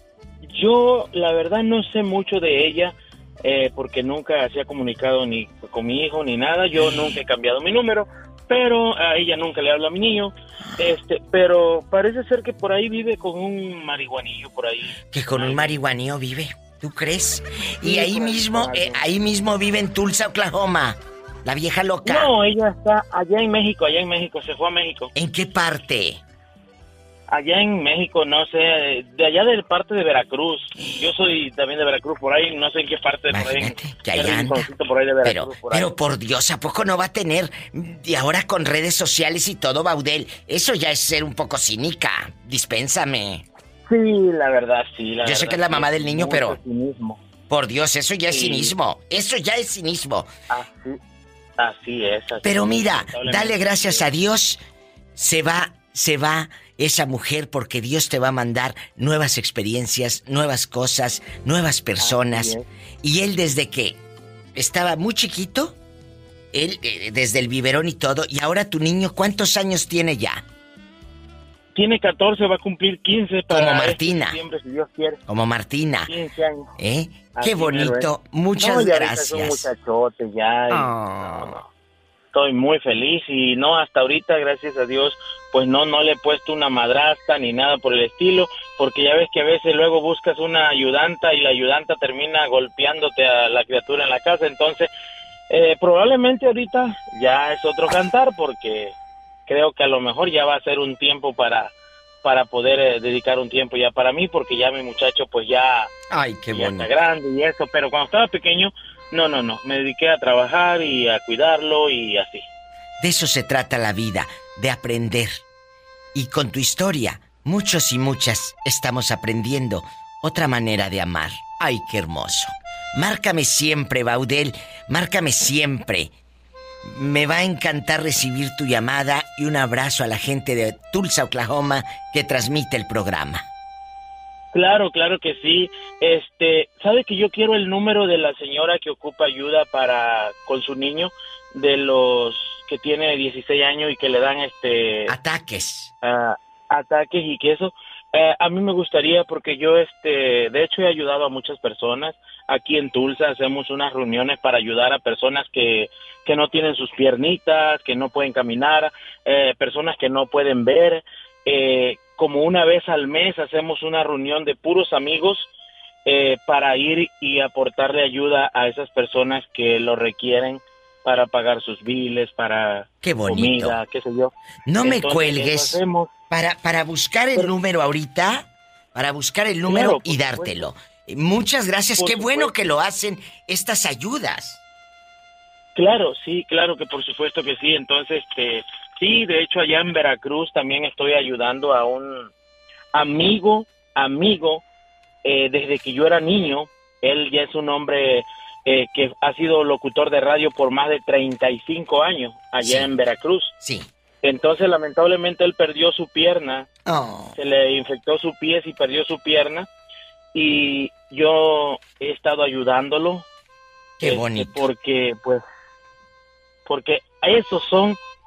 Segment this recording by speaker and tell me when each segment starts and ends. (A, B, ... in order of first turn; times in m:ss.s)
0:00.4-0:15.7 A
0:15.1-0:22.3 B
0:17.8-0:19.0 A
0:22.0-0:25.1 A
0:25.1-0:26.2 B
0:27.3-0:35.9 A
0:33.3-0:34.7 B
0:35.2-0:43.4 B
0:43.9-0:47.2 A
0:45.2-0:46.6 B
0:47.5-0:50.3 B
0:48.3-0:48.7 A
0:50.5-0:51.0 A
0:51.6-0:54.0 A
0:52.4-0:54.6 B
0:55.2-1:04.0 B
1:02.0-1:02.6 A
1:04.5-1:05.8 B
1:06.5-1:10.4 B
1:11.7-1:15.2 A
1:13.5-1:14.4 B
1:15.3-1:16.1 B
1:16.1-1:16.7 A
1:16.8-1:19.7 B
1:17.3-1:21.6 A
1:20.7-1:21.6 B
1:22.3-1:34.9 A
1:35.5-1:38.9 A
1:39.5-1:41.7 A
1:42.2-1:45.9 A
1:46.1-1:46.9 B
1:46.5-1:52.4 A
1:53.0-1:55.4 B
1:56.1-2:06.1 B
2:06.8-2:13.4 B
2:14.5-2:25.1 A
2:25.1-2:25.9 B
2:26.0-2:45.5 A
2:46.0-2:56.1 A
2:53.0-2:53.8 B
2:54.7-2:55.8 B
2:56.3-3:04.6 B
2:59.6-3:00.6 A
3:02.0-3:02.5 A
3:05.7-3:12.3 A
3:12.9-3:14.6 A
3:15.2-3:23.5 A
3:22.6-3:22.9 B
3:23.6-3:23.9 B
3:24.2-3:26.7 A
3:26.8-3:27.4 B
3:27.4-3:29.7 A
3:30.3-3:33.2 A
3:34.0-3:34.6 B
3:34.0-3:35.4 A
3:36.6-3:38.0 A